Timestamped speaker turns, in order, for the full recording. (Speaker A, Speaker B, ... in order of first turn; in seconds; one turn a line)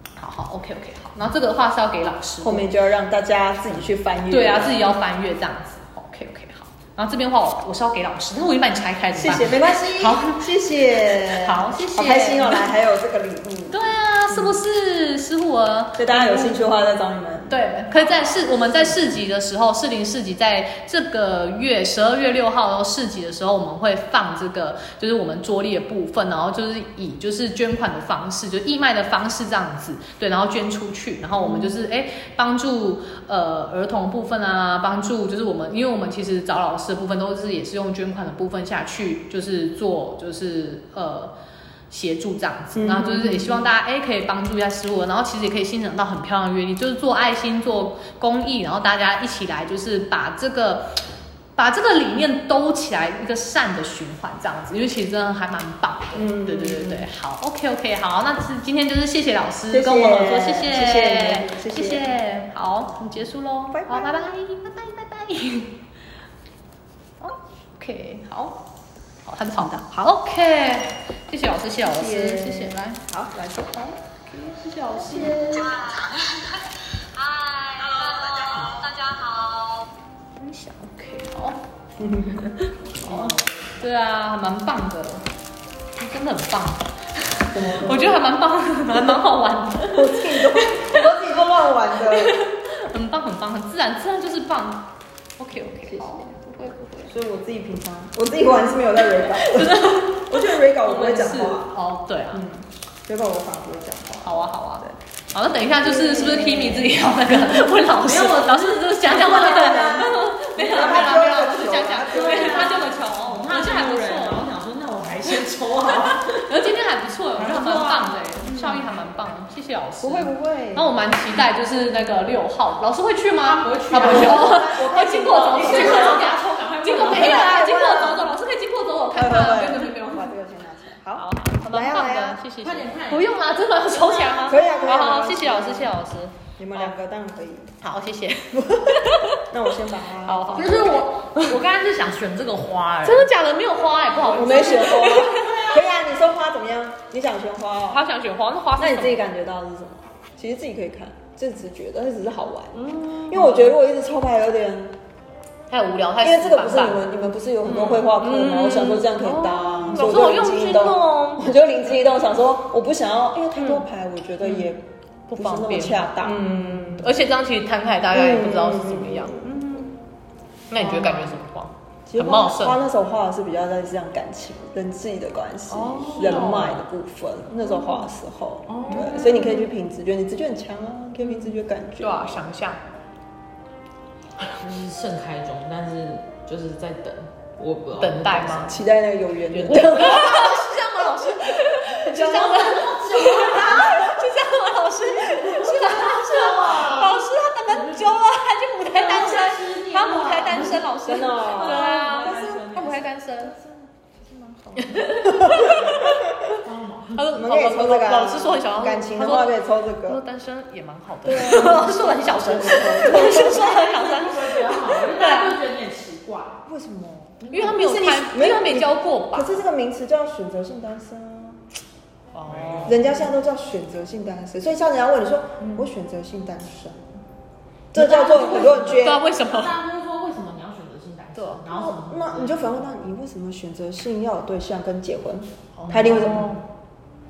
Speaker A: 0.2-2.7
Speaker B: 2.4-4.9
Speaker A: 4.3-10.4
Speaker B: 9.2-14.6
Speaker A: 11.0-12.7
Speaker A: 13.7-16.6
Speaker B: 16.0-19.0
Speaker A: 17.5-41.3
Speaker B: 31.4-31.7
Speaker A: 41.9-51.0
Speaker B: 42.8-43.7
Speaker A: 51.6-65.8
Speaker B: 56.1-57.1
Speaker B: 59.7-62.1
Speaker B: 63.7-64.3
Speaker A: 67.2-68.7
Speaker A: 69.2-73.0
Speaker B: 69.6-70.1
Speaker B: 71.8-74.0
Speaker A: 74.3-76.2
Speaker B: 74.9-75.8
Speaker A: 77.2-79.8
Speaker A: 80.4-81.6
Speaker B: 82.0-83.4
Speaker A: 82.5-85.3
Speaker A: 86.0-91.1
Speaker B: 87.5-88.2
Speaker B: 89.9-92.4
Speaker A: 92.0-97.2
Speaker B: 95.9-96.3
Speaker B: 97.1-101.7
Speaker A: 99.2-102.5
Speaker B: 102.3-105.0
Speaker A: 104.2-114.4
Speaker B: 105.8-106.9
Speaker C: 107.4-116.4
Speaker B: 109.3-112.8
Speaker A: 116.1-130.0
Speaker C: 117.4-118.6
Speaker B: 118.5-118.8
Speaker B: 120.0-120.9
Speaker C: 123.4-124.6
Speaker B: 124.0-126.3
Speaker C: 125.3-127.7
Speaker B: 127.0-128.3
Speaker B: 129.1-132.4
Speaker C: 129.6-130.4
Speaker A: 131.2-136.9
Speaker C: 132.6-133.4
Speaker C: 134.0-134.4
Speaker B: 134.4-136.0
Speaker B: 136.6-137.8
Speaker A: 137.8-139.4
Speaker B: 138.8-140.9
Speaker A: 140.2-141.5
Speaker C: 140.5-143.3
Speaker A: 143.1-145.8
Speaker B: 144.2-148.0
Speaker A: 147.9-149.2
Speaker B: 148.8-154.9
Speaker A: 152.9-153.7
Speaker A: 155.7-157.1
Speaker B: 156.2-164.8
Speaker A: 157.6-161.5
Speaker A: 163.6-163.8
Speaker A: 164.4-164.7
Speaker A: 165.3-169.9
Speaker B: 165.3-167.1
Speaker B: 168.1-169.7
Speaker A: 170.7-172.8
Speaker B: 170.8-171.3
Speaker B: 172.1-182.4
Speaker A: 175.7-176.8
Speaker C: 176.1-176.8
Speaker C: 178.7-179.5
Speaker A: 178.9-179.6
Speaker A: 182.0-182.8
Speaker C: 184.5-188.8
Speaker A: 188.0-188.8
Speaker B: 188.7-190.8
Speaker A: 189.5-203.6
Speaker C: 189.7-190.2
Speaker C: 192.0-194.1
Speaker B: 192.2-192.7
Speaker B: 193.8-194.1
Speaker C: 195.3-198.1
Speaker C: 198.9-203.1
Speaker B: 201.1-202.7
Speaker B: 203.4-206.5
Speaker A: 204.8-206.2
Speaker C: 206.5-207.2
Speaker A: 207.2-215.6
Speaker B: 207.3-210.2
Speaker B: 211.2-213.7
Speaker C: 213.0-216.6
Speaker B: 216.7-221.6
Speaker A: 217.5-219.6
Speaker A: 222.3-223.2
Speaker C: 222.5-223.0
Speaker B: 222.8-227.1
Speaker B: 227.9-229.2
Speaker C: 227.9-232.9
Speaker A: 228.9-229.7
Speaker A: 231.4-231.6
Speaker B: 231.7-236.6
Speaker A: 235.8-236.6